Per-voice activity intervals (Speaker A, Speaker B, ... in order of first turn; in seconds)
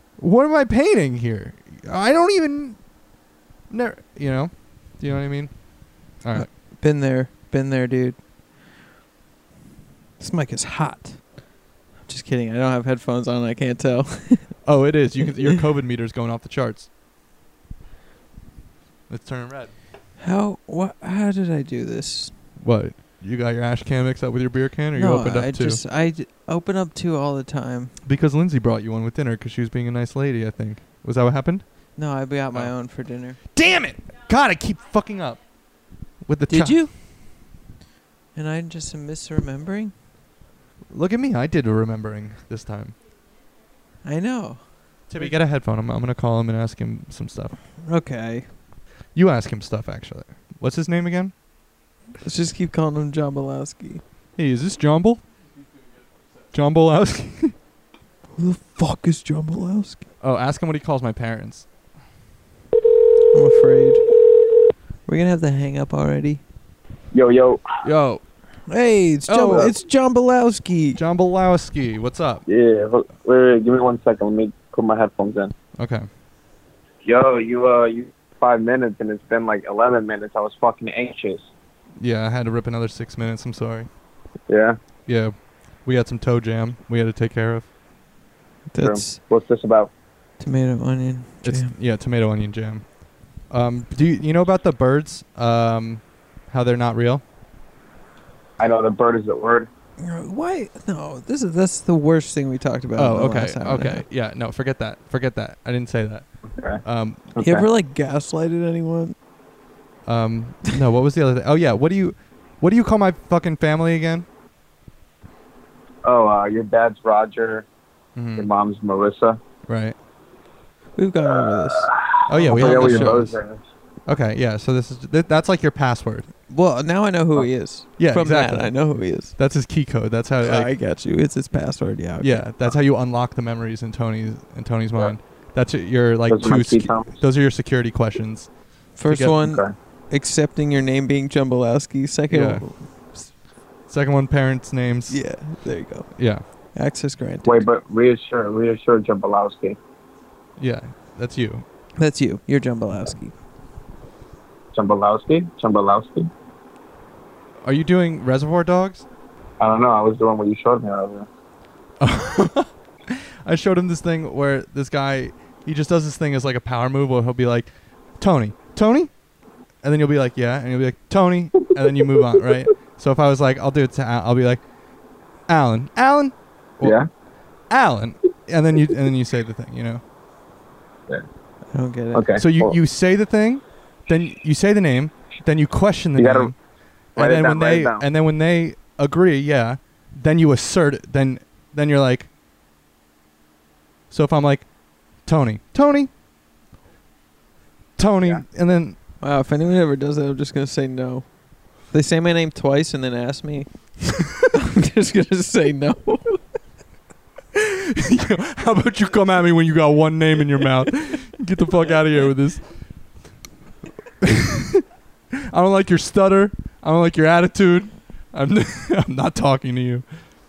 Speaker A: 0.2-2.8, 3.7-5.5, 6.2-6.5, 14.7-16.9, 19.1-19.7, 22.6-25.8, 28.0-31.6, 33.5-35.4, 36.2-36.8, 40.9-43.0, 45.1-47.6, 49.1-51.3, 54.4-55.2, 56.5-57.5, 60.2-61.7, 67.8-68.2, 69.3-69.7, 71.0-72.4, 75.8-76.1, 82.0-83.9, 85.1-87.7, 91.4-92.8, 93.5-97.2, 103.0-106.3, 106.8-107.3, 110.1-114.3, 118.2-118.5, 119.7-120.0, 122.3-123.3, 124.1-126.3, 128.0-128.7, 129.3-130.7, 132.2-138.5, 139.1-139.4, 142.3-142.7, 143.9-145.2, 146.2-146.4, 150.6-151.7, 157.6-159.1, 162.0-169.1, 169.8-174.6, 175.5-177.0, 177.7-180.0, 182.4-186.6, 187.2-192.3, 194.1-194.7, 195.3-196.1, 198.0-199.0, 207.6-212.6, 214.2-214.8, 215.5-220.1
Speaker B: 6.3-8.2, 10.2-11.2, 12.1-14.6, 20.2-22.3, 24.9-27.9, 32.0-33.4, 36.5-36.9, 38.4-39.9, 44.0-44.6, 47.8-48.5, 52.2-54.0, 58.4-60.0, 63.3-64.0, 65.1-66.4, 68.7-71.0, 88.7-89.2, 90.4-91.7, 100.0-104.0, 107.4-109.2, 121.0-123.3, 126.5-129.3, 130.4-132.5, 139.0-143.3, 145.1-146.1, 146.7-147.7, 152.0-153.3, 181.7-182.3, 199.2-201.3, 201.9-206.4
Speaker C: 67.1-67.6, 72.5-75.5, 77.0-81.5, 84.5-84.8, 88.8-89.9, 98.6-99.7, 106.6-106.8, 107.3-107.7, 116.0-117.7, 118.4-119.4, 121.3-123.6, 136.3-137.1, 139.4-139.7, 147.4-149.8, 154.7-156.3, 159.6-161.3, 176.8-177.1, 182.1-182.8, 186.2-186.5, 187.2-188.1